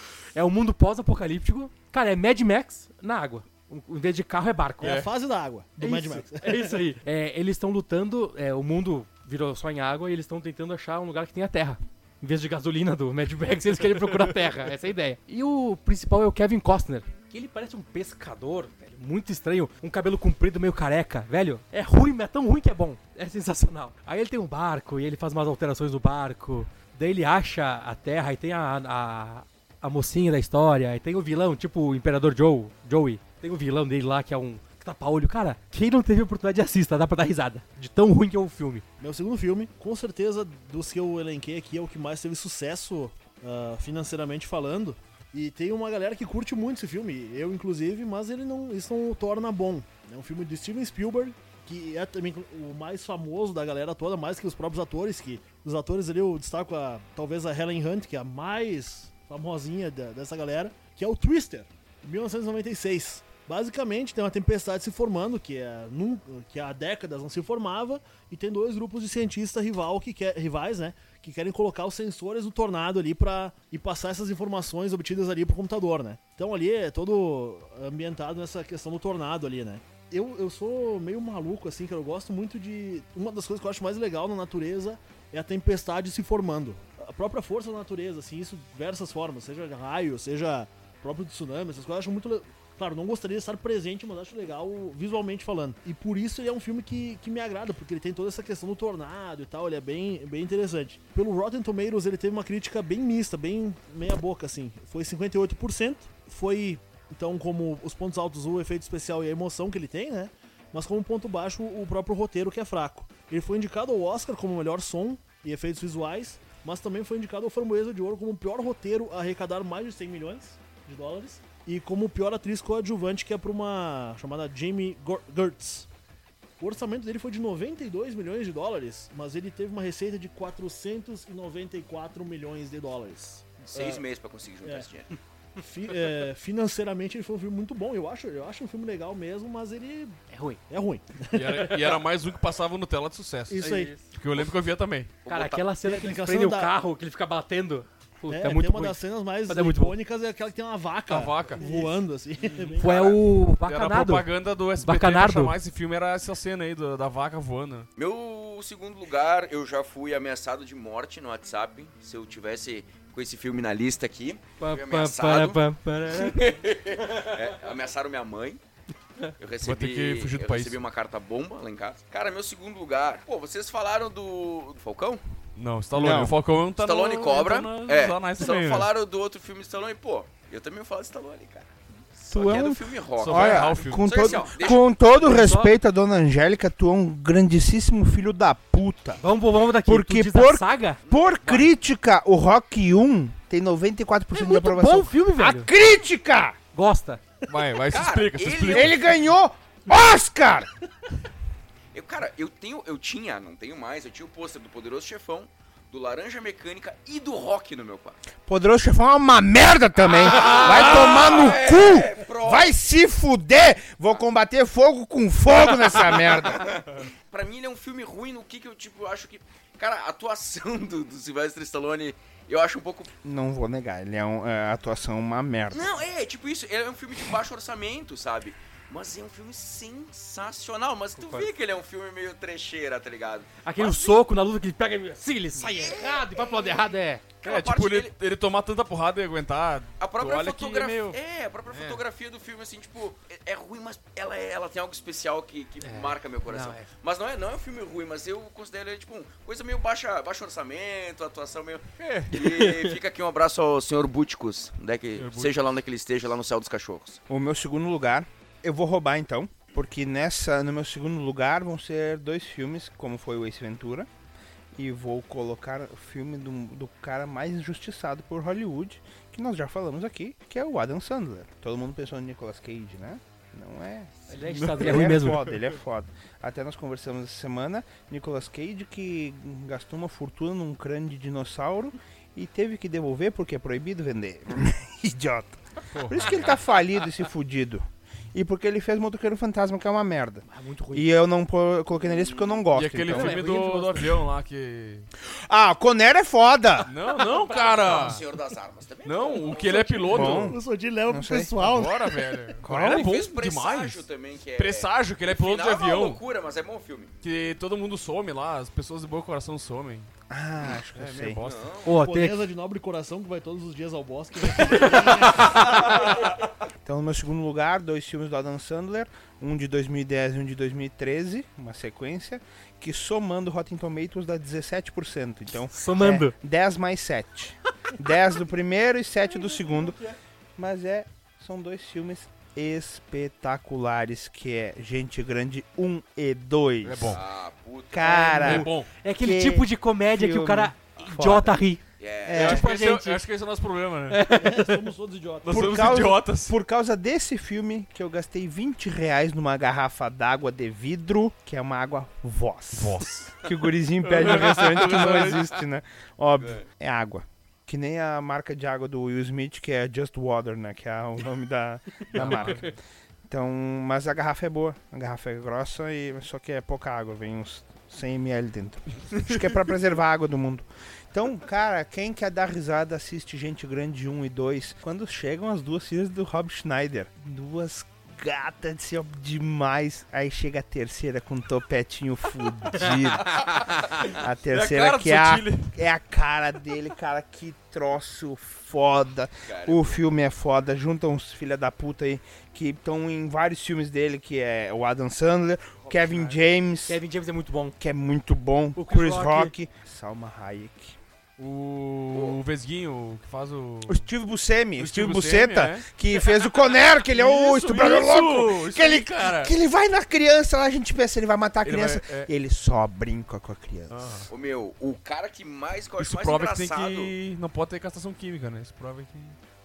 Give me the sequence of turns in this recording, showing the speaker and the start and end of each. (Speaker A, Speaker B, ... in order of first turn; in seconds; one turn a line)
Speaker A: 0.3-5.1
Speaker B: 4.8-6.8
Speaker A: 5.8-38.8
Speaker B: 39.0-125.9
Speaker B: 126.6-134.0
Speaker C: 133.6-135.1
Speaker B: 135.6-142.0
Speaker A: 140.3-140.6
Speaker D: 141.3-145.1
Speaker B: 143.5-143.9
Speaker A: 143.6-144.1
Speaker C: 145.2-145.6
Speaker A: 145.3-150.0
Speaker B: 145.8-146.7
Speaker B: 148.3-153.1
Speaker D: 151.1-151.6
Speaker A: 151.6-151.9
Speaker A: 152.8-154.3
Speaker D: 153.6-157.9
Speaker A: 154.8-155.6
Speaker C: 158.0-168.6
Speaker A: 164.6-166.5
Speaker C: 169.4-175.2
Speaker D: 169.6-170.8
Speaker D: 175.6-178.9
Speaker E: 175.9-176.3
Speaker C: 176.8-184.8
Speaker E: 182.2-189.2
Speaker D: 183.2-184.4
Speaker A: 185.1-185.7
Speaker A: 189.2-191.0
Speaker E: 189.8-196.6
Speaker C: 191.1-191.7
Speaker A: 194.3-195.7
Speaker A: 196.7-197.2
Speaker D: 197.5-199.0
Speaker C: 197.9-199.1
Speaker E: 198.7-200.7
Speaker C: 201.9-208.2
Speaker E: 208.4-216.8
Speaker C: 210.1-212.8
Speaker C: 217.3-223.1
Speaker E: 223.2-225.9
Speaker C: 225.7-234.2
Speaker A: 231.2-231.5
Speaker A: 233.6-237.2
Speaker C: 235.6-236.8
Speaker C: 237.4-238.1
Speaker D: 237.4-241.2
Speaker C: 240.0-257.2
Speaker D: 241.7-242.0
Speaker A: 245.8-246.9
Speaker D: 252.0-252.4
Speaker A: 252.3-253.0
Speaker D: 255.2-255.6
Speaker E: 257.3-264.1
Speaker E: 264.8-293.4
Speaker A: 274.3-275.5
Speaker D: 274.4-275.5
Speaker D: 285.9-286.4
Speaker A: 290.4-291.1
Speaker C: 292.0-292.6
Speaker D: 292.7-295.1
Speaker A: 293.1-294.1
Speaker E: 295.3-296.9
Speaker D: 296.9-298.2
Speaker C: 297.1-300.0
Speaker D: 299.0-300.6
Speaker B: 299.6-302.6
Speaker E: 300.1-301.5
Speaker D: 301.6-304.0
Speaker E: 302.6-303.1
Speaker C: 302.7-307.1
Speaker D: 304.6-306.2
Speaker D: 307.2-310.1
Speaker E: 310.3-311.4
Speaker D: 310.9-311.7
Speaker C: 311.4-312.0
Speaker A: 311.8-312.4
Speaker B: 311.9-316.3
Speaker E: 316.8-330.0
Speaker A: 325.7-326.3
Speaker B: 329.5-329.9
Speaker E: 330.6-337.2
Speaker D: 336.8-337.2
Speaker C: 337.1-338.3
Speaker E: 337.9-341.6
Speaker A: 338.0-341.8
Speaker D: 338.4-338.9
Speaker C: 342.0-342.6
Speaker E: 342.2-342.6
Speaker A: 342.3-343.2
Speaker D: 342.3-344.2
Speaker A: 344.1-344.8
Speaker B: 344.3-346.1
Speaker D: 345.4-346.5
Speaker E: 345.5-362.7
Speaker D: 352.8-353.4
Speaker D: 354.0-355.6
Speaker C: 356.4-356.6
Speaker D: 362.1-362.7
Speaker E: 363.3-397.0
Speaker D: 383.3-385.7
Speaker C: 389.4-390.0
Speaker A: 396.9-397.8
Speaker E: 397.8-401.0
Speaker A: 398.8-399.5
Speaker D: 401.4-404.1
Speaker C: 402.1-402.4
Speaker E: 403.9-414.3
Speaker D: 404.8-405.9
Speaker D: 407.1-409.5
Speaker D: 411.6-412.3
Speaker D: 413.9-414.3
Speaker C: 414.3-417.1
Speaker D: 416.0-419.4